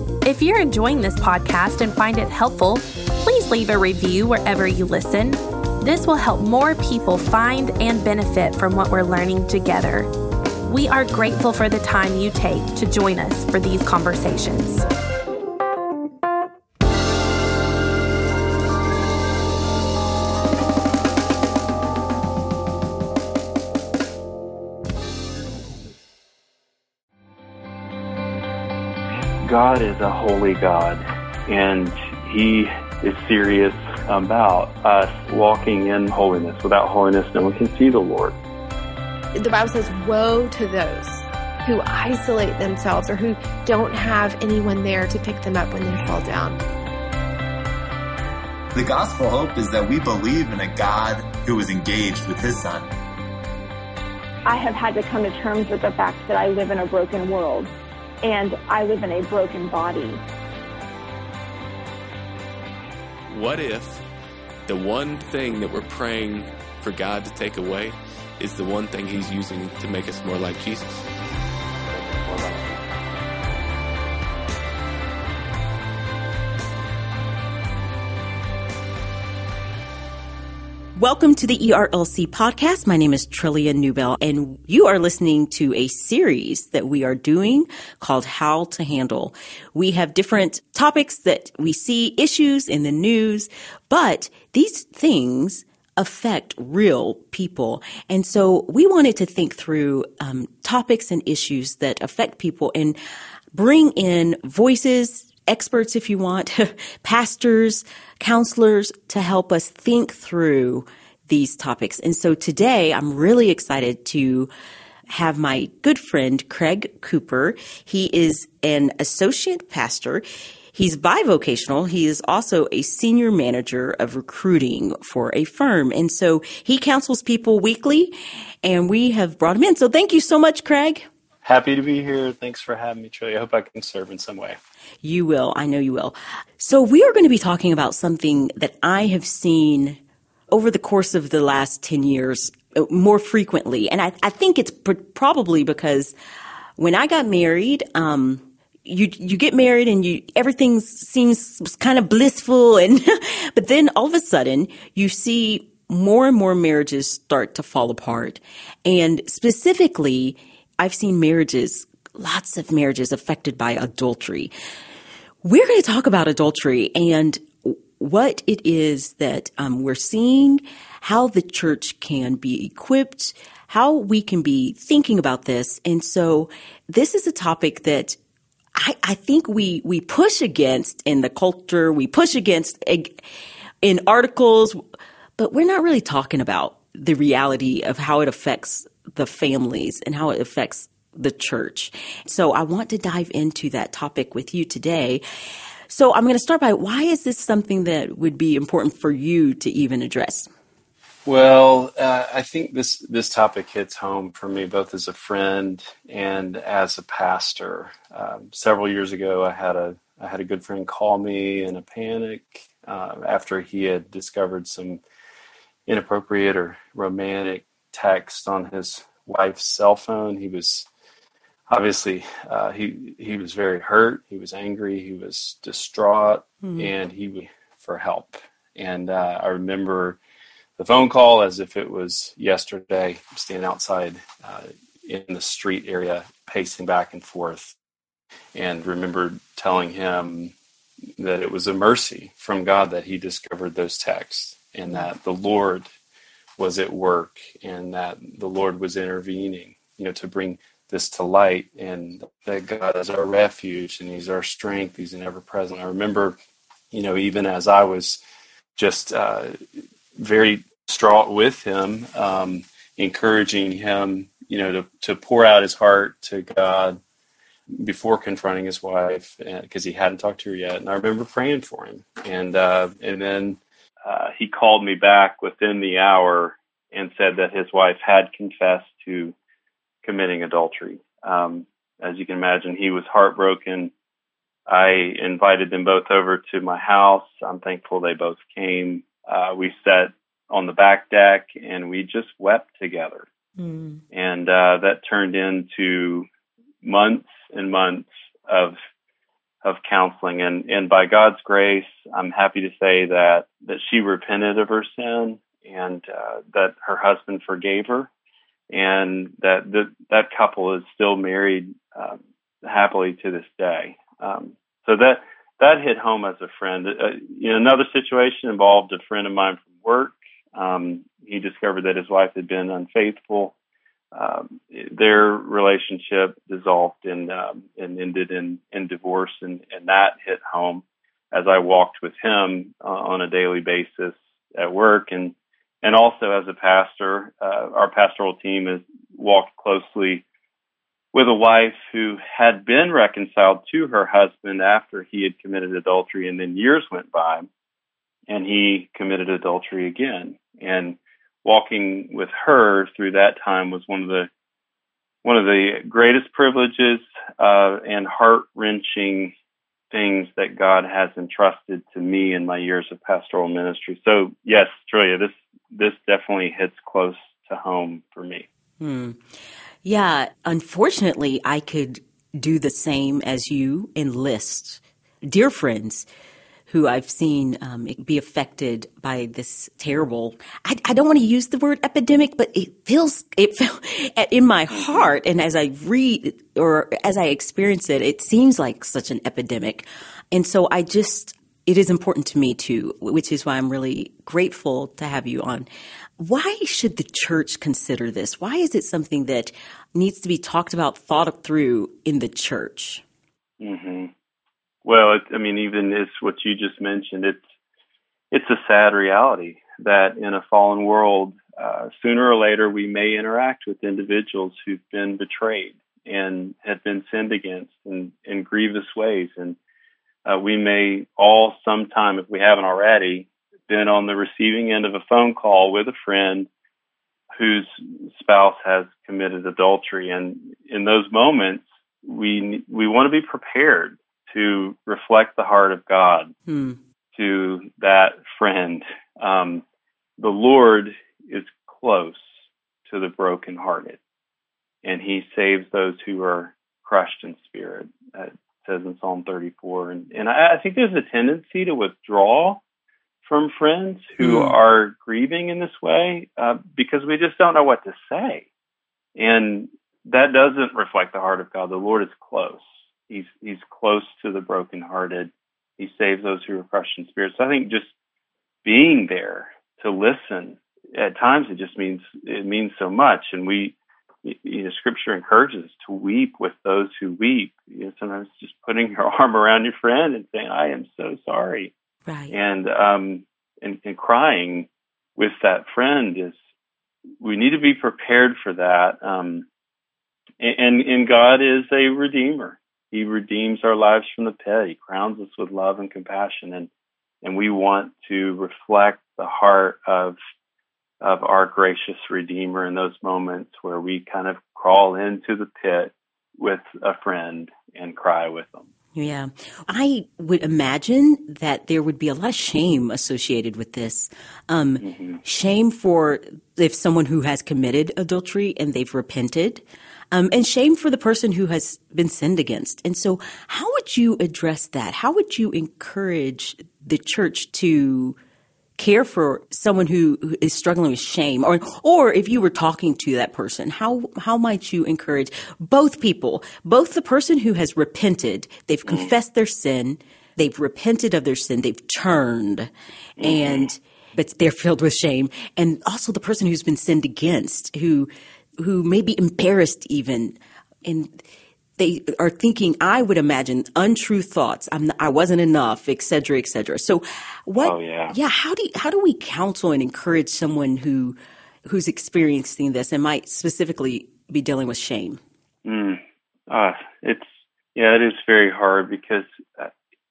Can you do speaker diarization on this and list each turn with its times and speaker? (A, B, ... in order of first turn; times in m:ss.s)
0:00.2-0:10.1 A
0:10.6-0:14.8 A
0:29.4-0:38.4 B
0:39.3-0:46.6 C
0:48.7-0:52.9 D
0:54.4-0:57.7 E
0:58.2-1:00.2 E
1:03.3-1:04.0 F
1:04.7-1:11.0 F
1:12.0-1:12.6 B
1:21.0-1:43.0 G
1:43.5-1:54.5 G
1:55.1-2:11.1 G
2:11.4-2:14.6 B
2:15.0-2:20.0 G
2:20.5-2:26.1 G
2:26.8-2:44.5 G
2:45.4-2:58.2 G
2:58.8-3:03.2 G
3:03.8-3:04.8 G
3:05.4-3:15.2 G
3:15.9-3:20.5 G
3:21.2-3:35.0 B
3:35.9-3:40.9 B
3:41.7-3:50.2 B
3:46.6-3:46.9 G
3:50.8-3:57.8 B
3:58.5-4:00.5 B
4:01.2-4:05.8 B
4:06.6-4:16.4 B
4:16.9-4:18.2 B
4:18.8-4:19.6 B
4:20.2-4:27.0 B
4:27.7-4:39.3 B
4:40.0-4:43.9 B
4:44.7-4:53.3 B
4:53.6-4:54.0 G
4:54.1-4:56.3 B
4:56.8-4:58.8 B
4:59.6-5:08.1 B
5:08.7-5:23.5 B
5:24.1-5:40.2 B
5:41.1-5:47.5 B
5:48.3-5:54.3 B
5:55.2-5:59.3 B
5:59.9-6:08.4 B
6:08.8-6:09.2 G
6:09.8-6:16.1 G
6:16.7-6:35.7 G
6:24.7-6:25.1 B
6:36.2-6:43.0 G
6:43.6-6:44.1 B
6:44.8-6:47.4 B
6:48.3-6:59.6 B
7:00.2-7:06.5 B
7:07.3-7:16.3 B
7:16.5-7:16.8 G
7:17.1-7:19.6 B
7:20.2-7:24.0 B
7:24.8-7:32.6 B
7:33.2-7:38.5 B
7:34.2-7:34.6 G
7:39.2-7:47.9 B
7:48.6-8:01.7 B
8:02.1-8:02.3 G
8:02.3-8:06.4 B
8:07.2-8:09.4 B
8:10.4-8:16.7 B
8:17.2-8:20.2 B
8:21.0-8:28.7 B
8:28.9-8:48.2 G
8:34.8-8:35.2 B
8:48.8-9:11.2 G
8:58.8-8:59.1 B
9:03.2-9:03.7 B
9:11.8-9:25.2 G
9:17.6-9:18.1 B
9:25.6-9:29.7 B